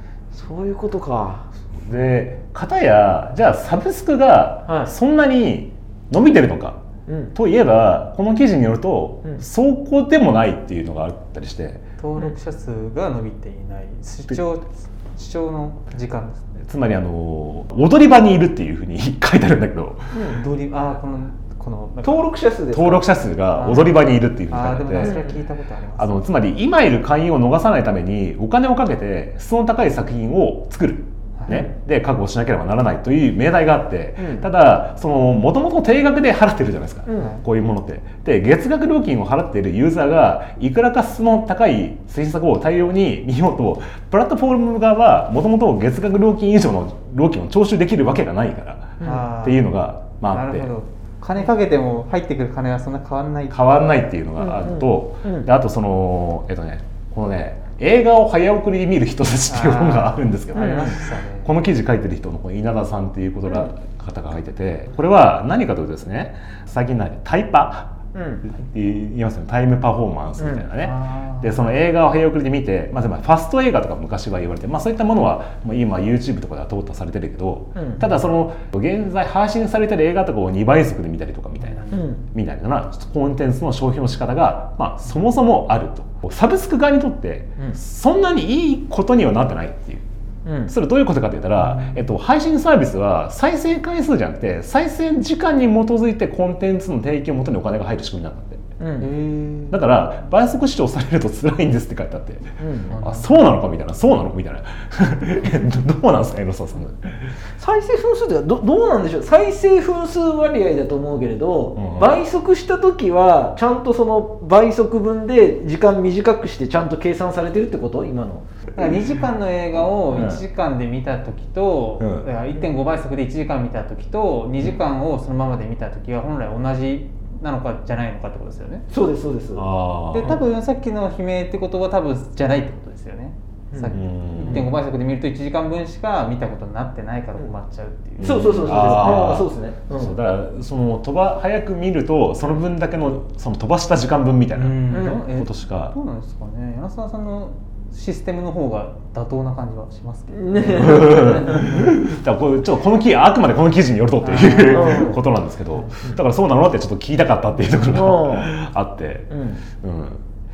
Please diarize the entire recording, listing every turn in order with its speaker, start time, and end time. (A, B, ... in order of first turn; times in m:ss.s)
0:00.3-0:01.5 A
0:01.7-0:06.8 B
0:04.7-0:04.9 A
0:07.1-0:07.3 A
0:07.3-0:11.8 B
0:12.0-0:16.6 C
0:16.6-0:20.1 B
0:20.1-0:20.4 A
0:20.2-0:22.4 C
0:22.0-0:23.1 A
0:22.7-0:25.3 B
0:23.5-0:26.2 C
0:25.0-0:25.3 A
0:26.0-0:50.7 B
0:31.4-0:31.7 C
0:34.2-0:34.5 A
0:37.1-0:37.4 A
0:49.0-0:49.2 A
0:49.0-0:49.7 C
0:50.3-0:53.6 C
0:53.5-1:07.9 B
0:54.4-0:55.5 A
0:59.5-1:01.5 C
1:00.6-1:00.8 A
1:08.1-1:08.4 A
1:08.5-1:30.1 B
1:10.4-1:10.7 A
1:10.8-1:11.6 C
1:17.8-1:18.0 A
1:21.6-1:22.0 C
1:21.9-1:22.2 A
1:30.5-1:30.7 A
1:30.7-1:38.6 B
1:31.6-1:32.1 C
1:38.8-1:39.1 A
1:39.0-1:39.8 C
1:39.7-1:47.2 B
1:42.6-1:43.0 A
1:42.9-1:43.3 C
1:47.6-1:58.4 A
1:51.8-1:52.2 B
1:58.8-2:08.9 C
2:00.1-2:00.4 B
2:02.0-2:02.3 B
2:08.9-2:09.7 A
2:09.6-2:10.4 B
2:10.1-2:19.4 C
2:13.7-2:14.7 A
2:13.9-2:14.7 B
2:18.2-2:26.0 B
2:18.2-2:20.2 A
2:24.6-2:31.9 C
2:24.9-2:25.2 A
2:30.3-2:31.8 A
2:30.7-2:40.2 B
2:34.2-2:35.2 C
2:34.7-2:35.2 A
2:37.8-2:38.5 A
2:39.3-2:39.6 A